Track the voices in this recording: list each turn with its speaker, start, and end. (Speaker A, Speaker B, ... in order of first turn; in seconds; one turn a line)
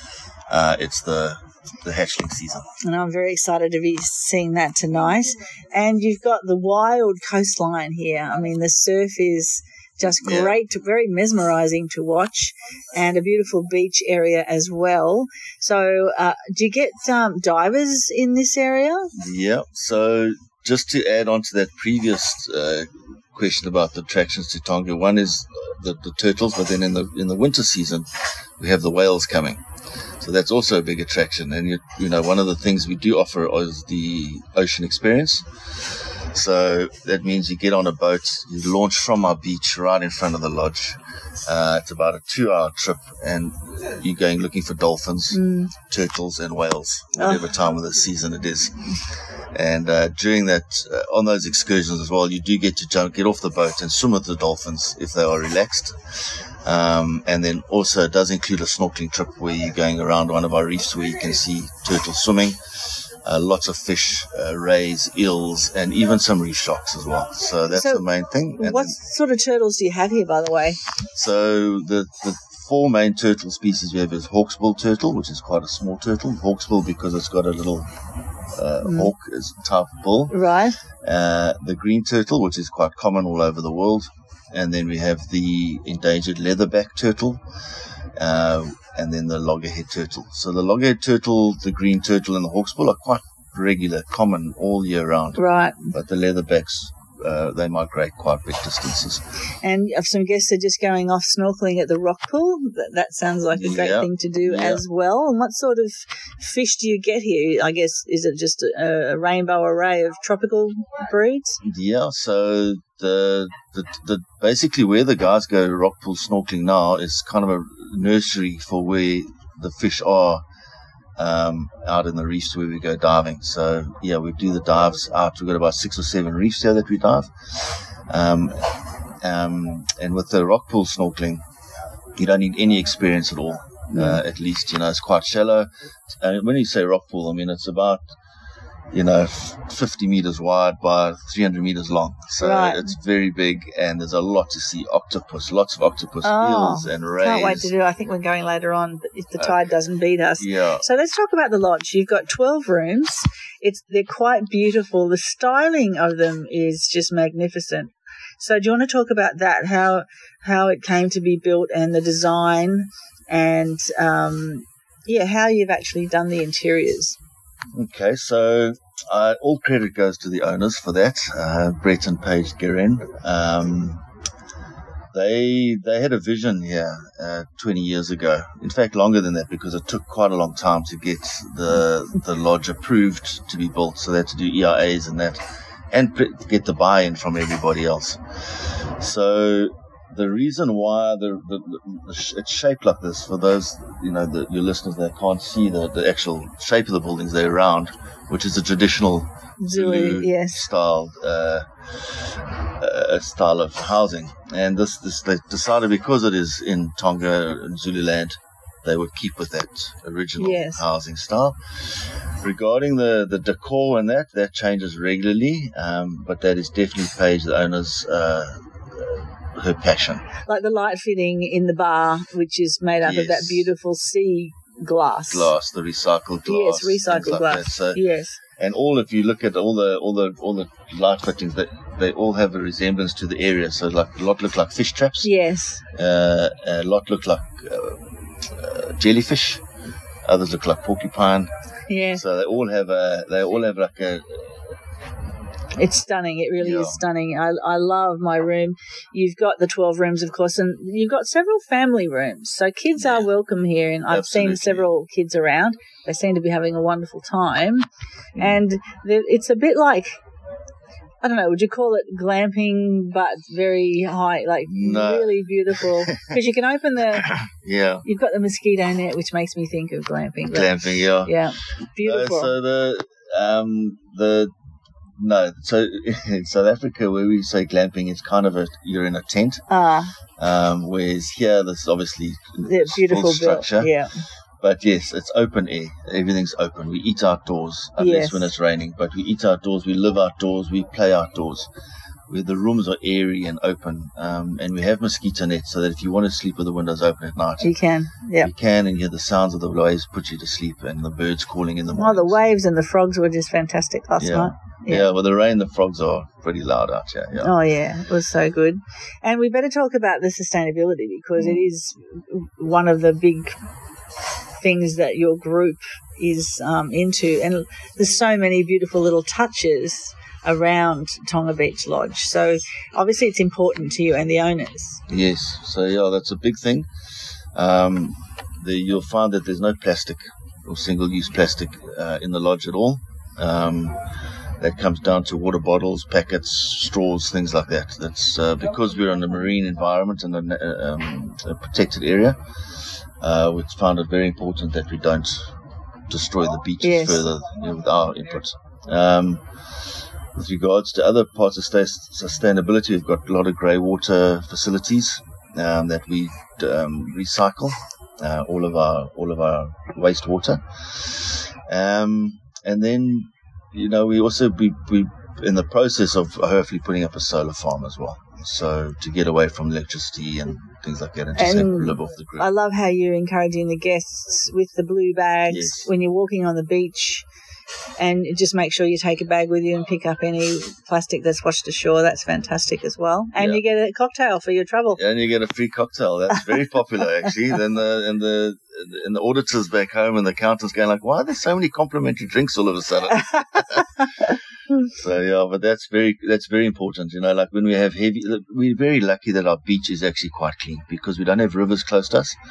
Speaker A: 0.5-2.7
Speaker B: 2.8-19.1
Speaker A: 10.2-10.6
Speaker A: 19.2-28.1
Speaker A: 28.6-29.6
Speaker A: 30.2-48.9
Speaker B: 45.3-45.7
Speaker B: 47.2-47.4
Speaker A: 49.5-69.0
Speaker B: 67.7-68.1
Speaker B: 68.6-70.8
Speaker A: 71.1-77.9
Speaker A: 78.5-80.3
Speaker B: 78.8-79.1
Speaker B: 80.3-80.8
Speaker A: 81.0-87.4
Speaker A: 88.2-99.2
Speaker B: 95.4-95.9
Speaker B: 99.6-111.6
Speaker A: 103.5-104.8
Speaker A: 111.6-120.4
Speaker A: 121.2-131.4
Speaker A: 132.2-135.7
Speaker B: 133.9-134.2
Speaker A: 136.2-138.0
Speaker A: 138.9-147.7
Speaker B: 142.4-142.8
Speaker B: 146.2-167.2
Speaker A: 150.4-150.8
Speaker A: 167.7-174.0
Speaker A: 175.1-185.4
Speaker A: 185.9-202.2
Speaker B: 199.6-200.7
Speaker A: 202.8-211.6
Speaker B: 210.4-210.8
Speaker A: 212.4-220.3
Speaker B: 220.5-225.5
Speaker A: 223.0-223.7
Speaker A: 225.3-228.0
Speaker B: 226.5-228.4
Speaker A: 228.6-235.3
Speaker B: 235.2-235.8
Speaker A: 235.9-239.6
Speaker A: 240.3-241.5
Speaker B: 241.9-242.2
Speaker A: 242.1-244.5
Speaker B: 245.8-257.8
Speaker A: 246.6-247.0
Speaker A: 253.0-253.3
Speaker A: 254.1-254.9
Speaker B: 258.4-260.2
Speaker B: 261.2-267.3
Speaker A: 264.7-266.4
Speaker A: 267.2-268.1
Speaker B: 268.0-272.5
Speaker A: 270.5-271.4
Speaker A: 272.0-274.5
Speaker A: 275.2-279.7
Speaker B: 279.7-280.1
Speaker A: 280.4-283.9
Speaker B: 282.6-284.1
Speaker A: 284.6-291.7
Speaker B: 288.0-288.5
Speaker A: 292.3-297.7
Speaker B: 297.6-298.5
Speaker A: 298.4-302.5
Speaker B: 302.0-305.1
Speaker A: 304.2-307.5
Speaker B: 307.4-313.5
Speaker A: 311.4-311.7
Speaker B: 314.6-325.0
Speaker A: 325.1-326.9
Speaker A: 327.5-334.0
Speaker A: 334.6-342.4
Speaker A: 343.2-345.6
Speaker A: 346.1-349.8
Speaker B: 346.8-347.3
Speaker A: 350.4-372.5
Speaker B: 371.4-377.3
Speaker A: 375.5-375.9
Speaker B: 378.0-385.0
Speaker A: 383.4-383.6
Speaker A: 384.9-393.9
Speaker A: 394.9-402.4